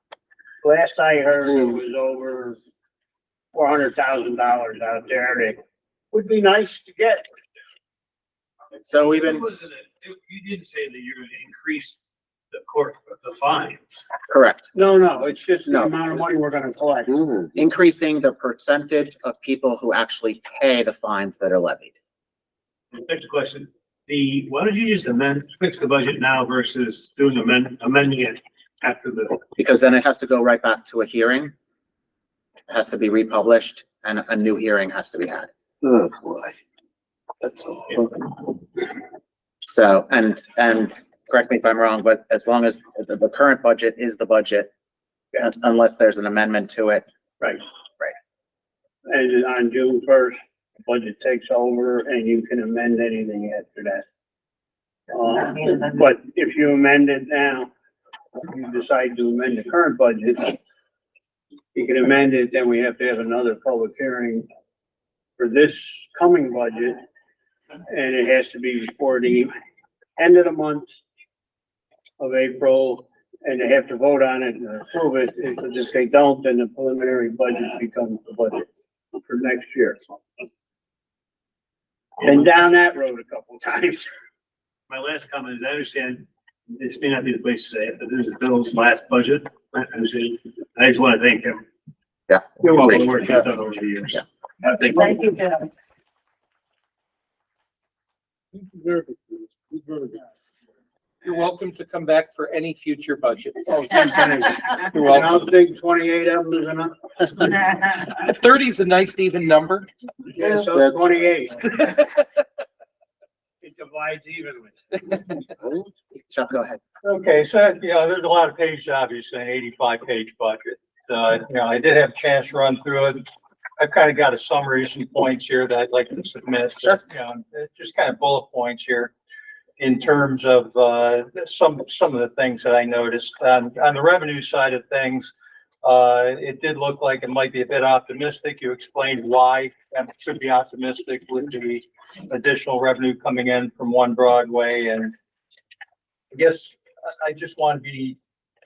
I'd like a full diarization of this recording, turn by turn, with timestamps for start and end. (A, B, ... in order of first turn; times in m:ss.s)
0:00.6-0:02.6 A
0:03.5-0:05.6 A
0:06.1-0:07.3 A
0:08.8-0:09.5 B
0:08.9-0:12.0 C
0:12.5-0:14.1 C
0:14.3-0:14.8 B
0:14.8-0:17.1 A
0:15.7-0:16.0 B
0:17.1-0:17.5 D
0:17.6-0:21.9 B
0:22.9-0:29.4 C
0:29.6-0:31.5 B
0:32.7-0:35.5 B
0:35.8-0:36.6 D
0:37.4-0:38.3 D
0:39.7-0:44.7 B
0:45.3-0:47.0 B
0:49.1-0:54.1 A
0:55.1-0:57.7 A
0:58.4-1:00.6 A
1:01.7-1:04.5 A
1:05.4-1:07.0 A
1:07.9-1:09.5 A
1:10.2-1:11.0 A
1:12.2-1:20.0 A
1:22.2-1:24.1 A
1:24.9-1:31.6 C
1:32.3-1:33.2 B
1:32.6-1:34.2 C
1:34.8-1:35.2 C
1:41.2-1:44.0 E
1:43.7-1:47.7 A
1:44.9-1:45.6 E
1:47.8-1:49.9 E
1:50.3-1:51.6 A
1:50.6-1:51.0 D
1:51.8-1:52.2 E
1:53.6-1:55.0 A
1:55.6-1:55.9 D
1:56.2-1:56.8 B
1:57.0-2:03.2 F
2:03.8-2:09.1 F
2:09.8-2:15.3 F
2:15.8-2:25.1 F
2:26.3-2:28.2 F